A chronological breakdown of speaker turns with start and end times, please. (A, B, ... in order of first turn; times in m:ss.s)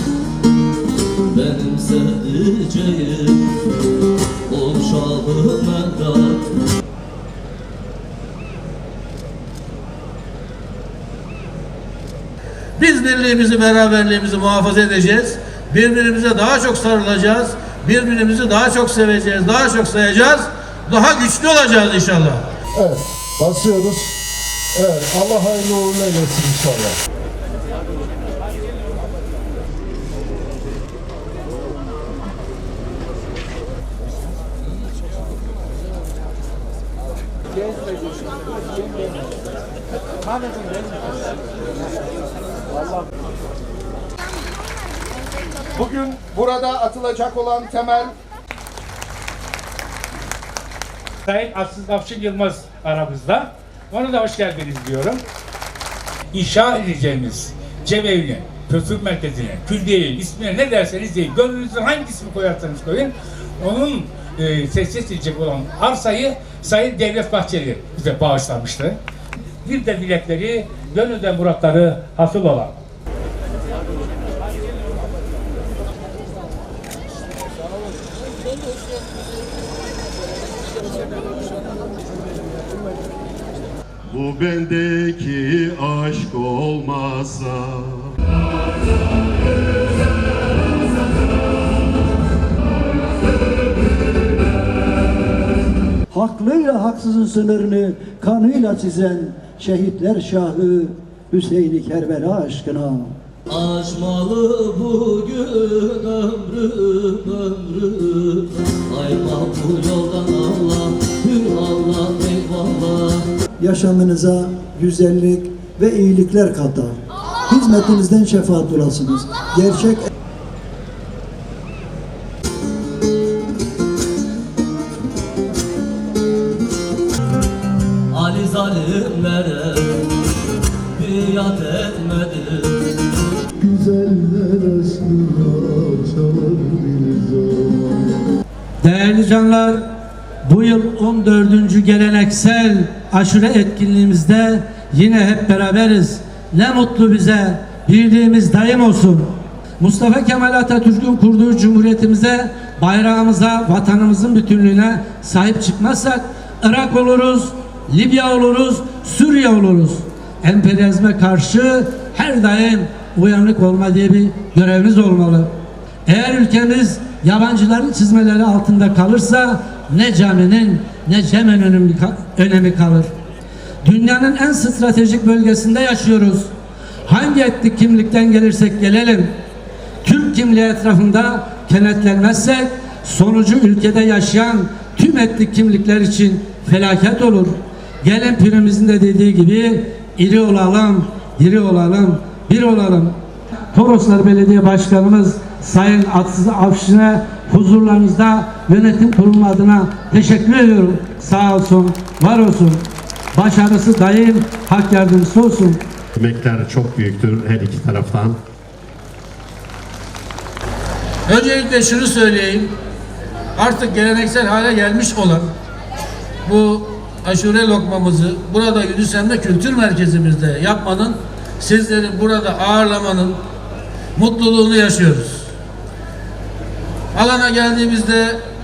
0:01.3-0:03.4 A
0:04.5-0:06.4 A
0:12.8-0:22.4 B
0:22.8-0:24.1 C
0:24.7-0:26.9 C
0:45.8-0:48.1 D
0:51.2-0:55.2 E
0:56.3-1:09.0 E
1:09.6-1:12.7 E
1:24.1-1:28.1 F
1:36.1-1:43.1 G
1:43.5-1:53.2 A
1:53.6-2:00.0 G
2:08.1-2:10.0 A
2:11.0-2:12.8 A
2:13.6-2:17.8 C
2:18.8-2:19.8 A
2:18.8-2:19.8 H
2:20.5-2:45.5 H
2:20.9-2:21.2 A
2:46.0-2:53.1 H
2:53.8-2:56.5 H
2:57.0-2:59.3 H
3:00.0-3:13.2 H
3:13.7-3:22.8 H
3:23.3-3:25.8 H
3:26.2-3:28.4 F
3:31.3-3:32.7 B
3:33.6-3:35.5 B
3:36.4-3:43.4 B
3:44.2-3:45.5 B
3:47.1-3:48.4 B